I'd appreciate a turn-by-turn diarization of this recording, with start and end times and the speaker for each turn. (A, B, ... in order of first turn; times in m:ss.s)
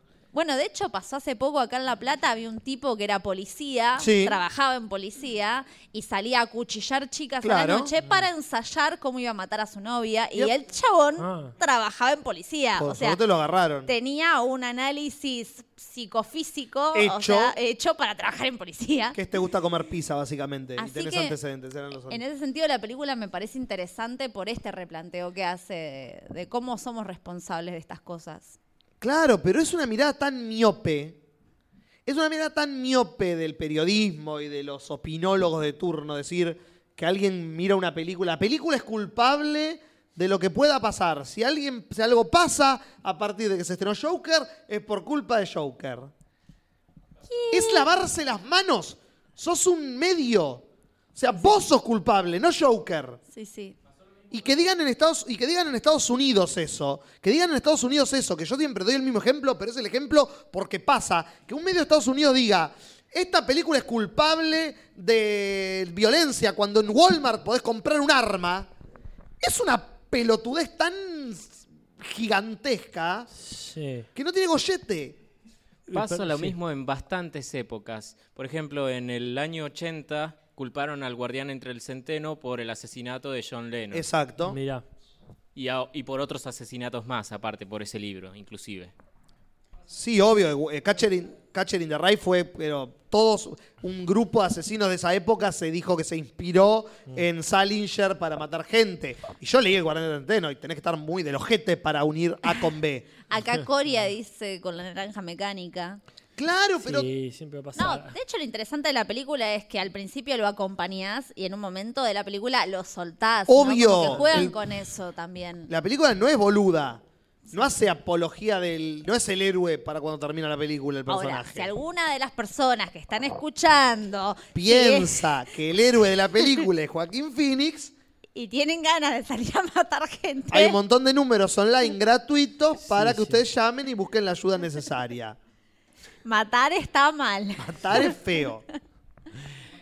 0:00.3-0:13.2 A
0:04.0-0:04.4 B
0:07.4-0:07.9 B
0:11.2-0:11.5 C
0:12.8-0:13.9 B
0:13.8-0:19.2 A
0:16.9-0:17.5 B
0:19.1-0:22.2 B
0:20.8-0:21.4 A
0:22.1-0:28.6 A
0:29.0-0:31.2 B
0:32.0-0:46.1 B
0:47.3-0:47.9 A
0:47.5-0:53.2 B
0:51.3-0:51.6 A
0:53.3-0:53.8 A
0:54.3-1:08.7 B
1:09.4-1:13.3 B
1:13.4-1:14.1 C
1:14.2-1:15.2 B
1:15.9-1:16.5 C
1:15.9-1:24.0 D
1:23.9-1:24.6 B
1:24.4-1:24.8 C
1:25.5-1:28.9 D
1:29.9-1:43.1 B
1:43.3-1:46.0 A
1:46.4-1:47.1 B
1:46.8-1:48.1 C
1:47.8-1:55.7 A
1:53.5-1:54.5 B
1:55.7-2:01.7 B
2:01.1-2:05.4 A
2:04.5-2:07.9 B
2:08.4-2:10.8 A
2:10.5-2:15.4 B
2:12.9-2:13.4 C
2:16.2-2:18.1 A
2:17.6-2:18.6 B